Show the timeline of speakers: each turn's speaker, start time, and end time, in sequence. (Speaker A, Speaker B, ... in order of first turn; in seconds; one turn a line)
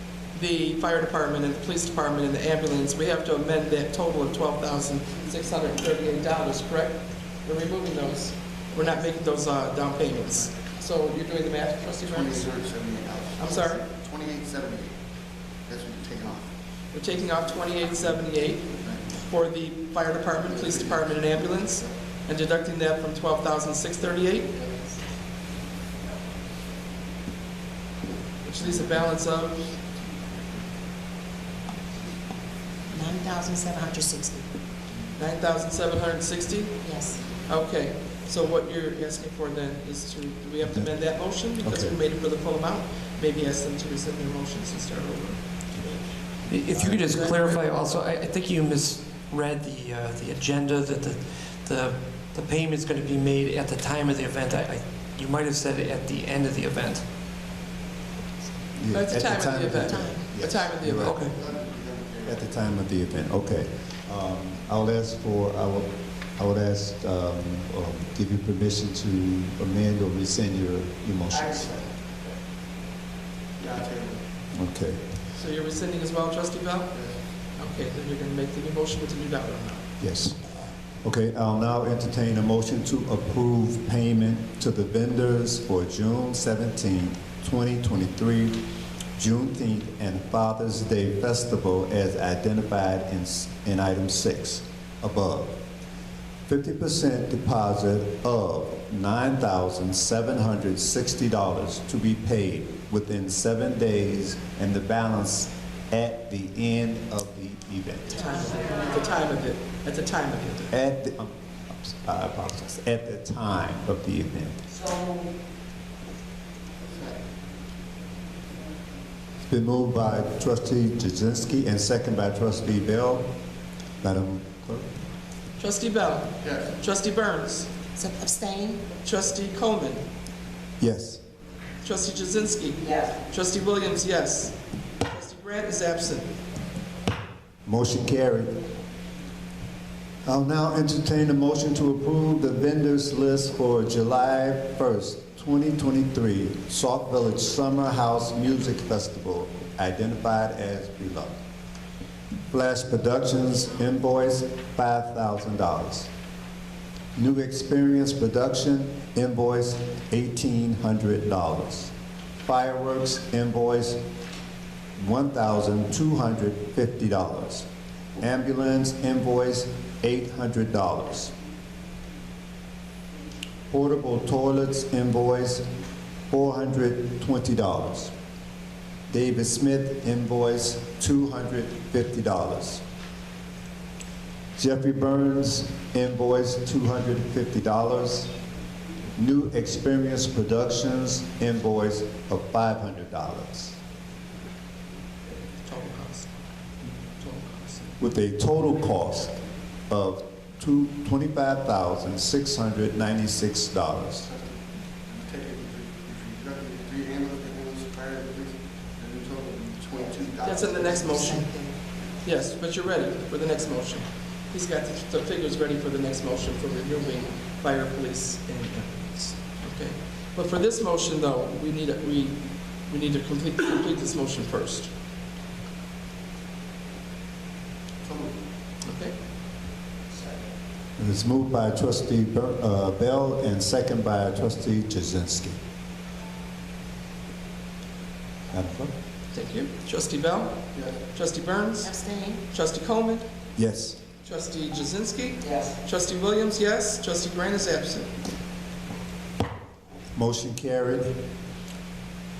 Speaker A: 0.3-12.7
Speaker B: 10.2-10.5
Speaker B: 12.0-15.0
Speaker A: 13.4-13.8
Speaker B: 15.7-16.6
Speaker A: 16.9-24.5
Speaker B: 18.7-19.2
Speaker B: 20.4-22.0
Speaker B: 24.5-24.9
Speaker A: 28.4-29.7
Speaker B: 28.6-29.1
Speaker B: 30.1-30.6
Speaker C: 32.9-34.5
Speaker A: 35.2-45.7
Speaker C: 36.8-37.2
Speaker D: 40.6-40.9
Speaker D: 41.6-42.0
Speaker E: 46.5-57.0
Speaker D: 46.7-47.0
Speaker A: 47.0-47.6
Speaker D: 58.8-61.3
Speaker A: 58.9-61.3
Speaker C: 59.9-60.2
Speaker E: 61.1-61.3
Speaker B: 61.1-62.5
Speaker D: 62.3-71.8
Speaker B: 71.3-71.9
Speaker B: 73.6-74.2
Speaker D: 74.5-75.1
Speaker A: 75.3-79.9
Speaker D: 80.0-80.4
Speaker D: 81.0-88.7
Speaker D: 89.2-95.6
Speaker D: 96.5-108.2
Speaker A: 108.1-110.7
Speaker D: 110.7-114.6
Speaker C: 114.8-115.3
Speaker B: 116.9-117.2
Speaker D: 119.4-123.3
Speaker D: 124.0-124.9
Speaker A: 125.6-127.7
Speaker B: 126.4-126.8
Speaker C: 128.0-128.9
Speaker A: 129.0-130.0
Speaker D: 130.8-131.2
Speaker A: 131.8-136.3
Speaker C: 132.8-133.2
Speaker D: 137.7-138.6
Speaker D: 140.2-151.3
Speaker D: 152.5-156.1
Speaker D: 157.2-161.9
Speaker D: 162.4-164.0
Speaker D: 165.0-167.7
Speaker D: 168.2-171.3
Speaker D: 173.7-175.7
Speaker D: 176.3-178.1
Speaker D: 179.1-182.8
Speaker D: 184.6-188.3
Speaker D: 189.2-193.8
Speaker A: 195.4-196.4
Speaker A: 197.2-198.0
Speaker D: 198.0-199.4
Speaker D: 199.9-204.3
Speaker B: 204.2-211.4
Speaker A: 210.4-224.9
Speaker C: 211.0-211.8
Speaker B: 228.0-228.4
Speaker A: 228.8-229.2
Speaker D: 231.0-235.6
Speaker D: 238.5-238.9
Speaker A: 239.3-243.3
Speaker C: 241.8-242.4
Speaker D: 243.6-244.0
Speaker A: 244.2-248.1
Speaker D: 250.1-251.2